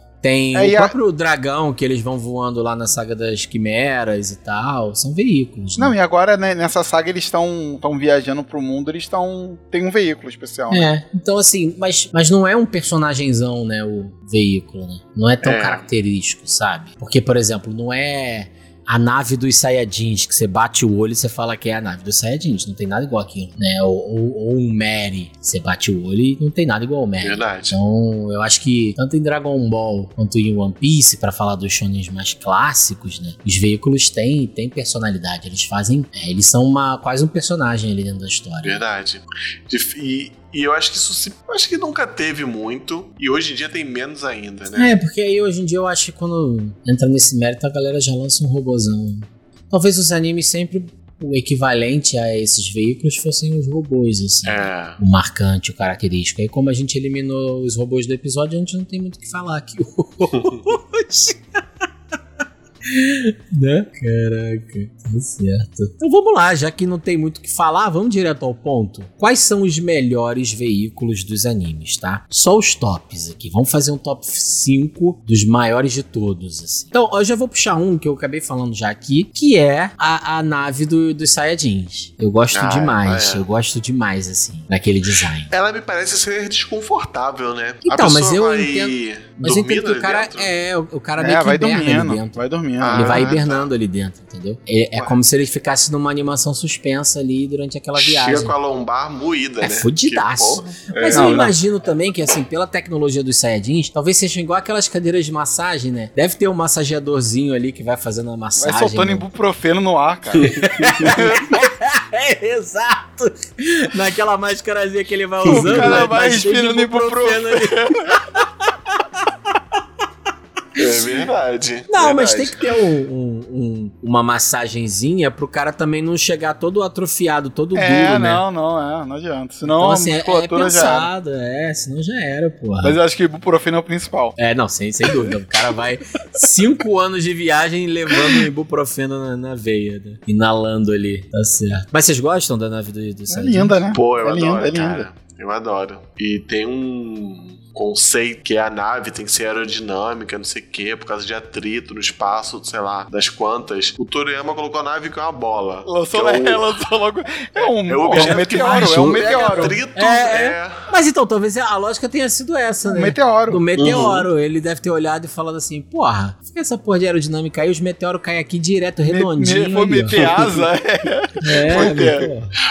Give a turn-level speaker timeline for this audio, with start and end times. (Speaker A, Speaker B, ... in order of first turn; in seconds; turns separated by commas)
Speaker A: 0.2-6.0, Speaker B: 0.5-0.9, Speaker B: 5.8-10.9, Speaker A: 10.7-38.8, Speaker C: 15.4-15.8, Speaker C: 27.2-27.8, Speaker C: 38.6-44.9, Speaker A: 44.7-61.6, Speaker C: 54.5-55.0, Speaker C: 60.3-60.6, Speaker A: 62.9-85.5, Speaker C: 82.5-83.5, Speaker C: 85.5-90.5, Speaker A: 87.8-98.5, Speaker B: 91.2-93.4, Speaker C: 92.8-93.7, Speaker C: 98.0-101.5, Speaker A: 99.6-109.2, Speaker B: 101.1-101.5, Speaker B: 108.6-111.5, Speaker A: 110.5-118.5, Speaker B: 115.5-118.2, Speaker C: 115.5-116.1, Speaker C: 120.8-122.7, Speaker A: 121.9-128.4, Speaker B: 127.8-131.1, Speaker A: 129.6-133.0, Speaker B: 132.8-134.4, Speaker A: 134.4-143.8, Speaker B: 143.3-145.1, Speaker C: 143.9-156.8, Speaker B: 155.9-159.8, Speaker C: 157.6-160.8, Speaker A: 158.1-170.2, Speaker B: 162.9-163.6, Speaker C: 163.8-164.3, Speaker B: 169.1-172.3, Speaker C: 170.1-170.5, Speaker A: 171.4-172.5, Speaker C: 171.5-172.2